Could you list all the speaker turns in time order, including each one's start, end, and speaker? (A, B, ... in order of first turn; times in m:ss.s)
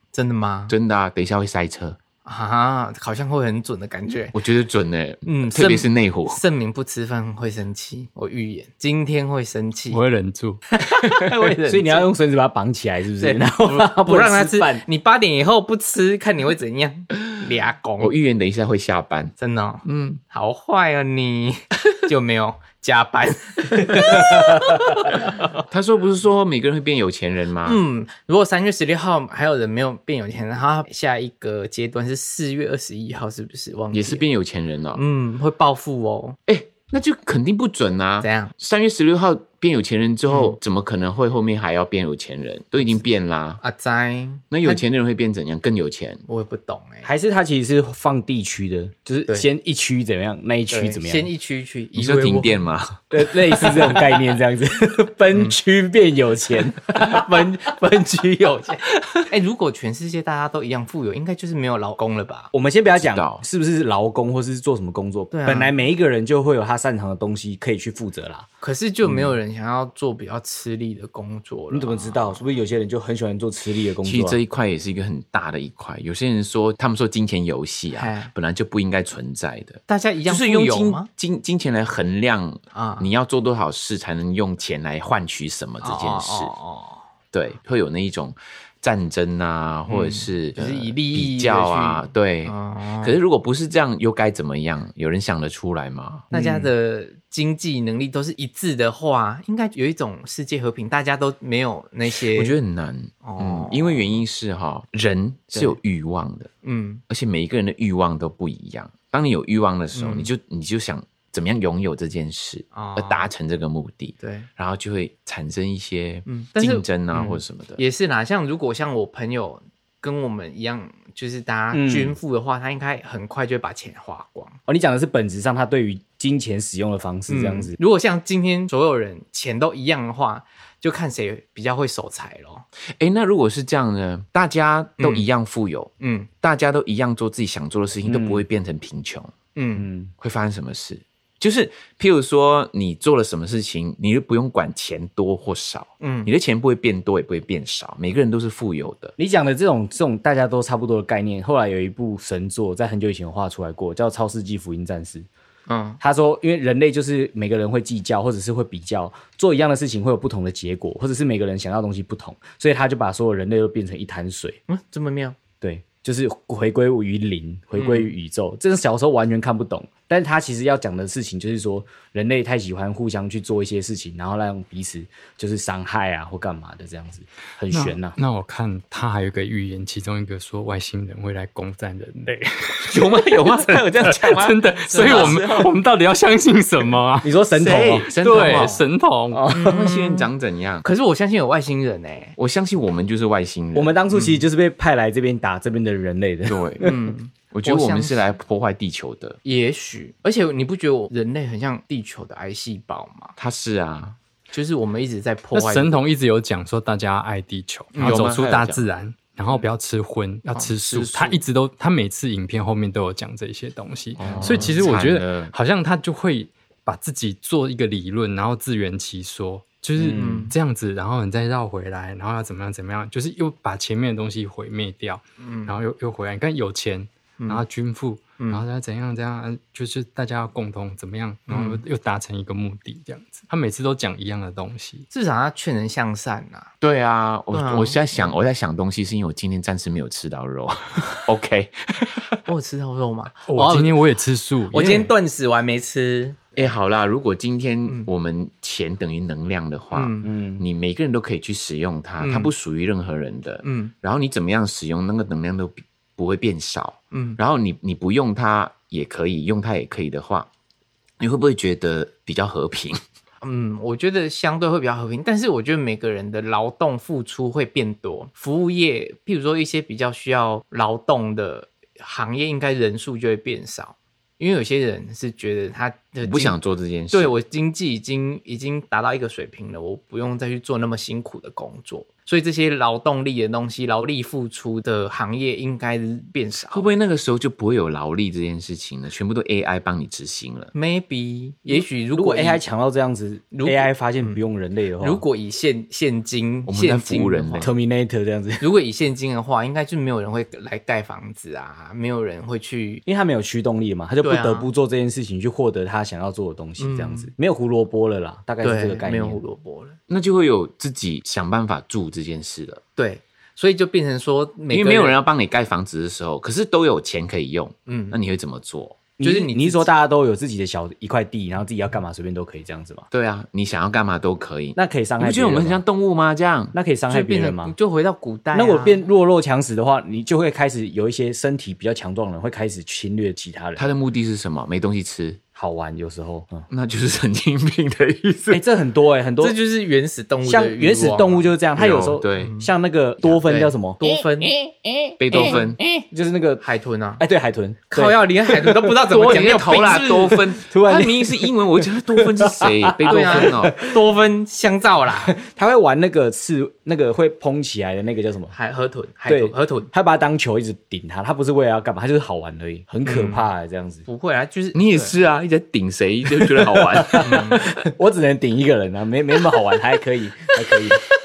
0:00.1-0:00.7 A
0:00.7-0:02.0 B
0:02.2-0:04.4 A
0:04.3-0:06.4 B
0:05.3-0:10.0 A
0:09.9-0:10.6 C
0:10.7-0:12.1 A
0:11.0-0:14.8 D
0:13.2-0:18.1 A
0:18.0-0:19.3 B
0:19.4-0:25.6 A
0:19.8-0:20.2 B
0:25.7-0:27.8 B
0:27.6-0:34.2 A
0:33.9-0:35.0 B
0:34.9-0:36.4 A
0:36.5-0:43.6 B
0:38.2-0:38.5 A
0:40.3-0:40.6 A
0:43.6-0:44.8 A
0:44.5-0:46.2 B
0:46.3-0:47.1 A
0:47.0-0:51.3 D
0:50.7-0:52.6 A
0:51.9-0:53.0 B
0:53.1-0:57.3 D
0:56.9-1:02.5 A
1:02.5-1:08.5 D
1:03.0-1:03.4 B
1:05.3-1:05.8 A
1:08.6-1:12.4 A
1:11.7-1:14.4 D
1:14.0-1:26.5 B
1:17.9-1:18.3 A
1:19.9-1:21.1 A
1:22.7-1:23.1 A
1:25.8-1:27.0 A
1:27.3-1:36.4 B
1:29.9-1:33.2 A
1:36.3-1:42.6 A
1:36.3-1:36.6 D
1:42.3-1:46.5 B
1:43.2-1:44.1 A
1:45.5-1:45.8 A
1:46.6-1:47.0 A
1:47.1-1:57.8 B
1:49.9-1:50.3 A
1:52.7-1:53.3 A
1:54.2-1:54.5 A
1:56.3-2:04.6 A
2:01.7-2:02.2 D
2:04.7-2:07.8 D
2:07.3-2:12.6 A
2:13.0-2:19.3 B
2:15.0-2:15.3 A
2:16.0-2:16.3 A
2:18.0-2:18.4 D
2:19.6-2:19.9 A
2:19.8-2:20.1 D
2:20.2-2:29.1 B
2:26.0-2:26.3 A
2:29.2-2:35.3 D
2:35.7-2:36.0 A
2:36.0-2:44.6 D
2:44.7-2:45.4 A
2:45.6-2:58.2 D
2:47.8-2:48.1 A
2:57.7-3:07.4 C
3:02.8-3:05.7 B
3:04.9-3:05.6 A
3:07.2-3:08.1 D
3:07.6-3:08.8 B
3:08.0-3:09.5 C
3:08.2-3:08.8 A
3:09.3-3:09.9 D
3:09.5-3:10.3 A
3:09.6-3:10.8 B
3:10.8-3:12.4 A
3:12.4-3:14.0 B
3:13.8-3:16.9 D
3:14.1-3:14.4 A
3:16.5-3:16.9 B
3:16.8-3:18.2 A
3:17.5-3:19.4 B
3:19.4-3:23.3 A
3:23.4-3:24.2 B
3:24.5-3:26.0 A
3:25.5-3:55.1 C
3:27.9-3:28.2 A
3:28.0-3:28.9 B
3:30.8-3:31.4 B
3:34.2-3:35.5 B
3:34.4-3:34.6 A
3:40.1-3:40.5 A
3:45.4-3:45.7 A
3:47.4-3:47.6 A
3:51.5-3:51.8 A
3:55.1-3:56.7 A
3:56.8-4:02.3 B
3:57.5-3:58.3 A
4:02.4-4:04.0 A
4:03.5-4:05.1 C
4:04.7-4:06.7 A
4:06.6-4:20.5 B
4:09.9-4:10.3 A
4:10.2-4:10.6 D
4:12.2-4:12.5 A
4:13.6-4:13.9 A
4:17.1-4:17.4 A
4:21.2-4:23.0 B
4:23.4-4:36.6 A
4:36.2-4:37.3 B
4:37.1-4:46.9 A
4:46.7-4:50.7 B
4:50.7-4:52.6 A
4:51.7-4:55.2 D
4:53.5-4:54.4 A
4:55.0-4:57.7 A
4:56.6-4:57.7 B
4:57.6-4:58.6 D
4:58.6-5:03.0 A
5:03.1-5:09.4 D
5:04.2-5:04.7 A
5:06.8-5:07.3 A
5:08.6-5:10.0 A
5:10.1-5:12.8 B
5:13.0-5:15.2 A
5:14.7-5:19.1 B
5:17.9-5:18.2 A
5:19.2-5:23.1 D
5:19.2-5:19.9 A
5:23.1-5:26.8 B
5:24.8-5:25.8 D
5:26.7-5:27.7 D
5:27.1-5:29.0 A
5:28.5-5:33.9 D
5:33.8-5:35.4 B
5:35.6-5:36.7 D
5:36.7-5:38.6 B
5:38.5-5:39.6 D
5:39.4-5:41.5 A
5:40.4-5:46.6 D
5:41.8-5:42.5 B
5:42.4-5:42.7 A
5:43.3-5:44.6 A
5:45.2-5:45.8 B
5:45.3-5:45.7 A
5:46.6-5:47.2 A
5:47.2-5:49.0 D
5:47.9-5:50.5 A
5:49.1-5:53.7 B
5:50.1-5:54.0 D
5:53.1-5:55.4 A
5:55.2-5:58.5 D
5:58.5-5:59.9 A
5:59.3-6:04.0 D
6:03.0-6:03.5 A
6:04.1-6:05.1 A
6:04.7-6:07.8 B
6:06.3-6:11.0 D
6:07.2-6:07.7 A